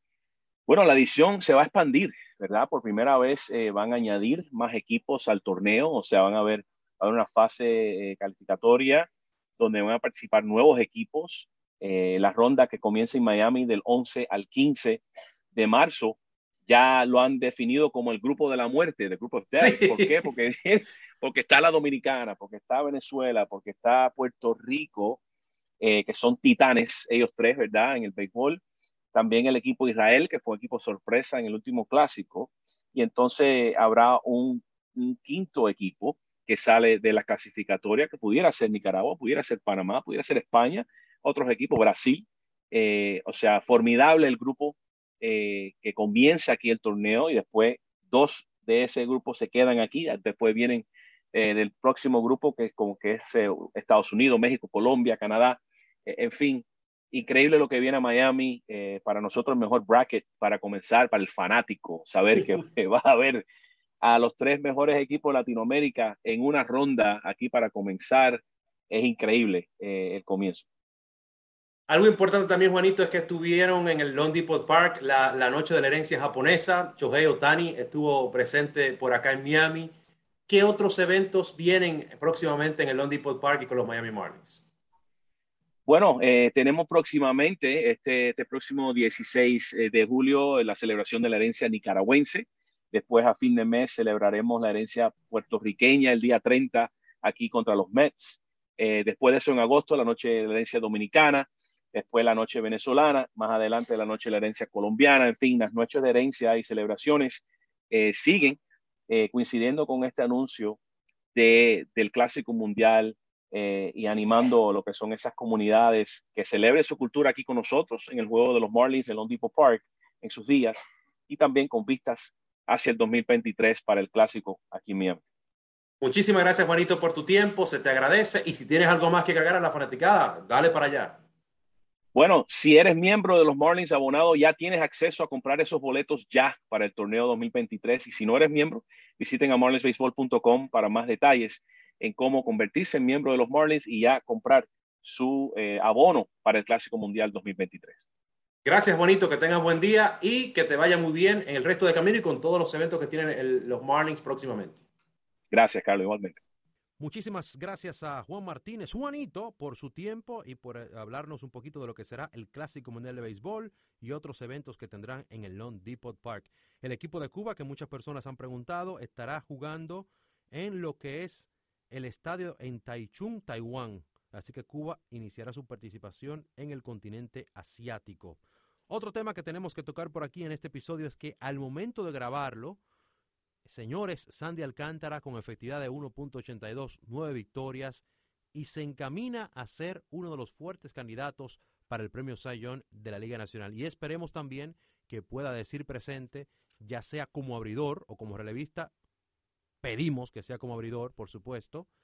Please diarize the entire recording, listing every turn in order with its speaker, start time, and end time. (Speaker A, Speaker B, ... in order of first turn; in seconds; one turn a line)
Speaker A: 0.7-25.2
Speaker B: 19.6-20.1
Speaker A: 25.8-28.6
Speaker A: 29.1-63.4
Speaker A: 64.0-70.7
Speaker B: 71.9-79.9
Speaker B: 80.5-84.6
Speaker A: 85.9-110.8
Speaker A: 111.3-125.2
Speaker B: 126.0-131.2
Speaker A: 132.1-148.0
Speaker B: 148.6-154.8
Speaker A: 155.5-156.4
Speaker C: 157.0-182.8
Speaker C: 183.6-188.0
Speaker C: 188.5-198.9
Speaker C: 199.8-201.9